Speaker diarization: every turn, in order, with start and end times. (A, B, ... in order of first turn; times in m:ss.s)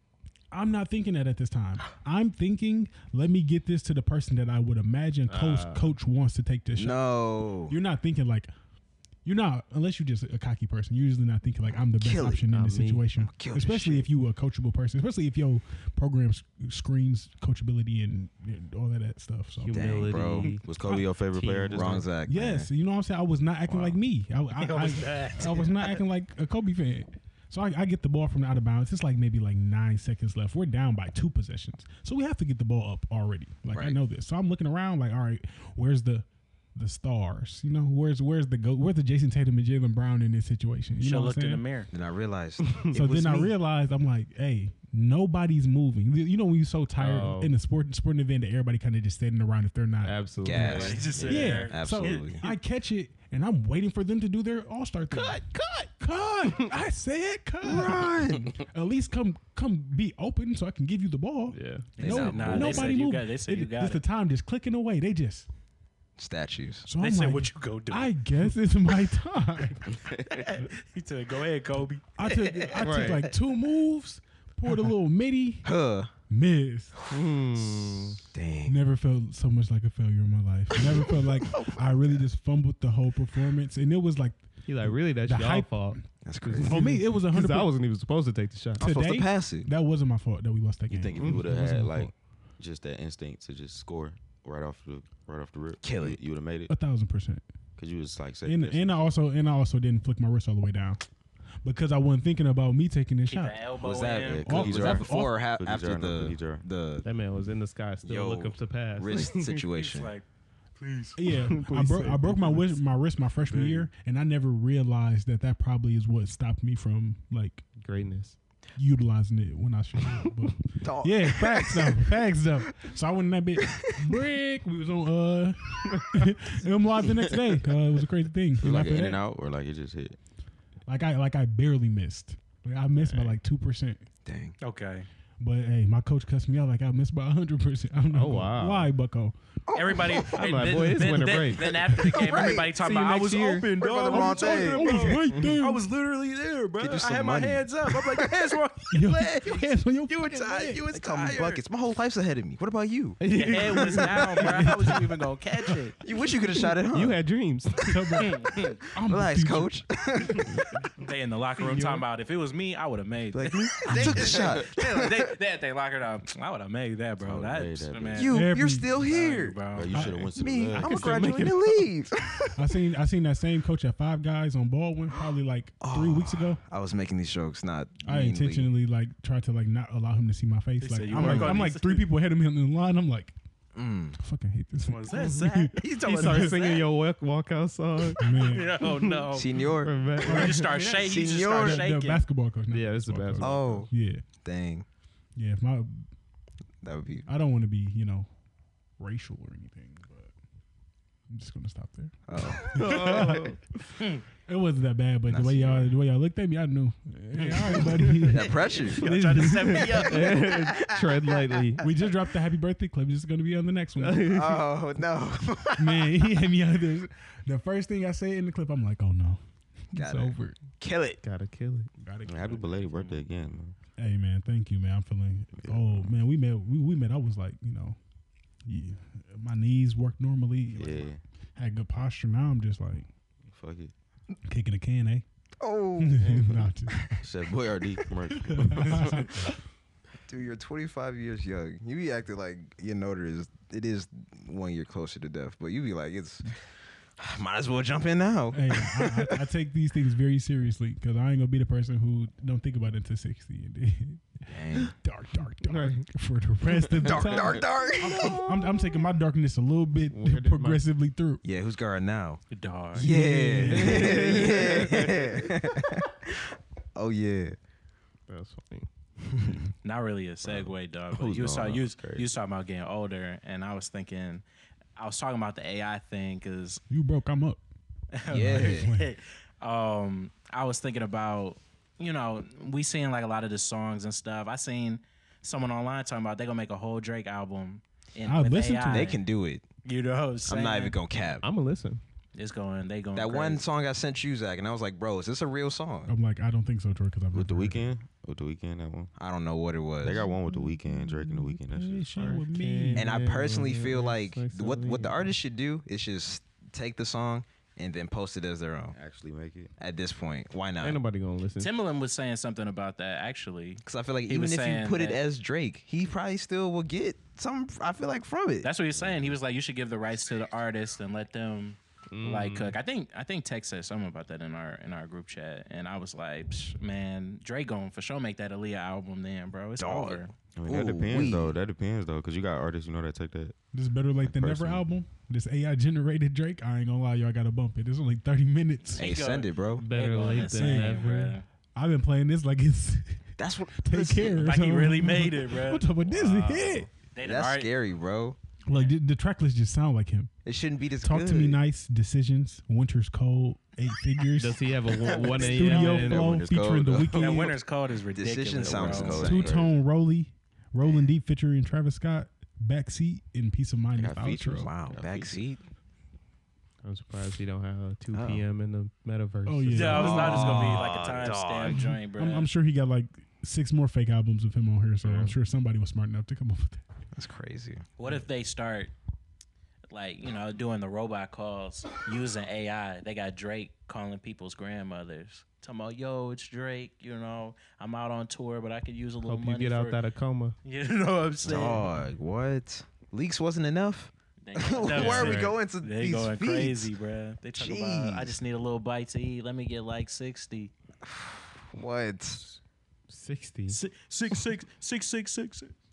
0:00.5-0:08.5 A
0:05.3-0:05.9 B
0:06.8-0:07.8 C
0:09.2-0:21.7 A
0:12.0-0:12.4 C
0:12.5-0:13.1 B
0:13.2-0:14.1 C
0:19.6-0:20.6 B
0:19.7-0:20.5 C
0:20.6-0:22.0 D
0:21.4-0:21.9 B
0:21.7-0:22.7 C
0:22.2-0:41.6 A
0:23.7-0:24.0 D
0:24.6-0:26.0 E
0:33.7-0:34.0 C
0:41.0-0:41.9 E
0:41.9-0:43.5 C
0:42.6-0:43.0 B
0:42.9-0:55.4 A
0:47.0-0:47.5 B
0:50.0-0:51.1 B
0:50.4-0:52.4 C
0:50.6-0:52.5 E
0:51.1-0:51.5 D
0:55.1-0:55.9 B
0:56.0-1:05.5 A
0:56.5-0:56.7 B
0:57.6-0:58.6 C
1:01.5-1:02.0 B
1:02.0-1:04.0 E
1:02.0-1:03.0 C
1:06.2-1:06.9 C
1:06.9-1:10.0 A
1:07.0-1:08.1 E
1:10.2-1:13.2 E
1:12.2-1:15.7 A
1:12.8-1:13.3 B
1:15.6-1:16.1 C
1:16.3-1:16.9 A
1:17.1-1:18.2 B
1:18.3-1:18.8 C
1:18.6-1:26.0 A
1:20.9-1:22.2 C
1:24.6-1:28.8 B
1:26.2-1:26.8 C
1:26.6-1:27.7 A
1:28.8-1:29.7 C
1:28.8-1:32.1 A
1:30.9-1:36.7 D
1:31.2-1:31.5 B
1:35.8-1:36.2 C
1:36.7-1:37.4 A
1:37.8-1:39.1 D
1:38.4-1:41.0 A
1:41.6-1:43.6 A
1:43.3-1:44.5 E
1:43.8-1:47.0 C
1:44.1-1:46.6 D
1:44.4-1:45.4 A
1:47.0-1:49.5 B
1:48.0-1:50.1 C
1:49.5-1:50.2 E
1:50.8-1:51.2 E
1:51.2-1:57.6 A
1:51.3-1:52.8 B
1:53.5-1:53.9 B
1:57.8-1:58.4 B
1:58.8-2:09.2 A
2:00.8-2:02.1 C
2:03.6-2:04.1 C
2:05.9-2:06.2 B
2:08.6-2:10.2 D
2:10.9-2:14.0 A
2:13.0-2:13.4 B
2:14.2-2:14.6 C
2:14.6-2:15.1 E
2:15.4-2:19.4 A
2:18.1-2:18.9 B
2:19.7-2:20.5 C
2:19.7-2:31.6 E
2:20.3-2:21.8 B
2:21.6-2:25.3 C
2:22.9-2:23.6 B
2:24.1-2:25.8 A
2:25.3-2:25.6 B
2:26.8-2:28.5 C
2:28.9-2:30.8 A
2:30.2-2:34.7 C
2:33.2-2:34.9 B
2:33.3-2:36.0 E
2:34.4-2:34.9 A
2:36.0-2:37.2 C
2:36.9-2:38.2 B
2:37.8-2:39.8 A
2:38.2-2:38.8 E
2:39.0-2:40.6 C
2:41.0-2:48.4 E
2:41.6-2:42.0 B
2:43.3-2:45.3 C
2:43.9-2:44.5 A
2:47.2-2:48.3 D
2:48.1-2:49.6 C
2:48.3-2:49.0 A
2:48.9-2:50.1 E
2:49.7-2:51.2 D
2:49.9-2:50.3 A
2:50.4-2:52.6 C
2:50.8-2:51.9 B
2:52.6-2:56.6 A
2:55.8-2:58.7 C
2:58.0-3:03.4 A
3:00.8-3:02.0 E
3:01.2-3:01.6 B
3:03.8-3:04.2 C
3:04.2-3:06.6 A
3:04.8-3:06.8 E
3:05.9-3:09.2 B
3:08.2-3:08.8 A
3:08.5-3:09.6 E
3:09.3-3:10.0 C
3:09.8-3:10.8 B
3:10.2-3:12.2 E
3:10.2-3:14.2 A
3:10.8-3:11.9 C
3:12.7-3:13.8 B
3:13.4-3:13.9 C
3:14.4-3:14.8 C
3:15.4-3:16.1 A
3:16.8-3:17.3 C
3:17.2-3:18.3 A
3:19.0-3:20.3 A
3:21.3-3:23.6 A
3:22.3-3:23.1 C
3:22.6-3:23.6 B
3:24.4-3:30.1 A
3:25.3-3:25.9 C
3:27.5-3:30.5 E
3:27.8-3:28.3 B
3:28.3-3:29.1 C
3:29.5-3:31.9 B
3:29.8-3:31.6 C
3:31.8-3:34.3 A
3:34.0-3:34.7 B
3:34.3-3:36.4 C
3:35.8-3:40.6 A
3:40.0-3:41.2 C
3:41.2-3:41.9 B
3:42.0-3:43.2 A
3:42.2-3:43.8 D
3:44.0-3:48.0 A
3:45.6-3:46.1 D
3:48.6-3:53.1 A
3:50.8-3:51.2 D
3:53.5-3:53.9 D
3:54.4-3:55.2 A
3:55.6-3:57.1 C
3:56.0-3:57.0 A
3:57.2-3:59.5 D
3:58.3-3:59.6 A
4:00.3-4:06.5 C
4:07.2-4:09.4 C
4:08.5-4:21.4 A
4:14.5-4:14.9 C
4:15.6-4:16.0 B
4:17.0-4:18.4 C
4:18.0-4:18.9 B
4:20.1-4:20.8 B
4:21.4-4:22.4 C
4:22.5-4:23.1 E
4:23.0-4:24.8 A
4:23.0-4:27.6 C
4:23.6-4:25.5 B
4:28.3-4:28.9 B
4:29.8-4:34.4 E
4:30.4-4:32.3 D
4:35.0-4:36.8 E
4:36.9-4:37.6 A
4:38.1-4:49.2 E
4:38.2-4:39.1 A
4:38.3-4:38.9 C
4:48.2-4:49.2 A
4:48.9-4:49.6 C
4:49.8-4:51.0 E
4:50.5-4:51.4 C
4:51.4-4:52.0 B
4:52.4-4:53.6 E
4:53.1-4:56.1 C
4:56.1-4:57.9 A
4:57.3-4:59.1 D
4:59.2-5:00.3 C
5:00.0-5:02.4 D
5:00.5-5:03.1 A
5:02.1-5:05.3 B
5:03.0-5:09.0 C
5:08.9-5:09.7 D
5:09.8-5:11.0 C
5:10.8-5:11.7 B
5:11.6-5:15.2 E
5:13.8-5:18.7 C
5:18.6-5:30.3 E
5:18.9-5:19.4 D
5:22.1-5:22.8 B
5:29.8-5:31.5 C
5:30.6-5:33.6 D
5:33.7-5:39.1 A
5:34.2-5:34.8 D
5:39.0-5:41.4 E
5:39.0-5:39.8 C
5:39.8-5:41.4 B
5:40.4-5:41.1 A
5:41.8-5:46.9 A
5:43.4-5:44.5 C
5:44.4-5:45.9 E
5:46.3-5:46.6 B
5:47.0-5:47.7 E
5:47.2-5:48.4 C
5:48.7-5:49.0 E
5:48.7-5:50.3 A
5:50.4-5:51.6 C
5:51.0-5:54.6 A
5:54.4-5:56.4 B
5:55.0-5:56.4 C
5:55.1-5:55.6 E
5:55.3-5:57.6 A
5:55.8-5:57.4 D
5:57.0-5:57.4 C
5:57.1-5:59.4 E
5:58.1-5:59.6 C
5:58.6-5:59.7 D
5:59.2-6:04.7 A
6:03.9-6:05.5 D
6:04.6-6:05.6 C
6:06.8-6:10.2 B
6:08.1-6:08.4 C
6:09.5-6:10.8 A
6:09.7-6:12.5 E
6:09.9-6:11.8 C
6:11.7-6:16.8 A
6:17.1-6:17.8 C
6:18.0-6:18.9 E
6:19.9-6:30.0 E
6:29.2-6:30.5 B
6:30.6-6:31.9 E
6:31.4-6:36.9 C
6:34.4-6:40.7 E
6:34.9-6:35.6 B
6:37.5-6:38.4 C
6:41.0-6:42.5 C
6:43.1-6:43.8 B
6:43.7-6:45.7 E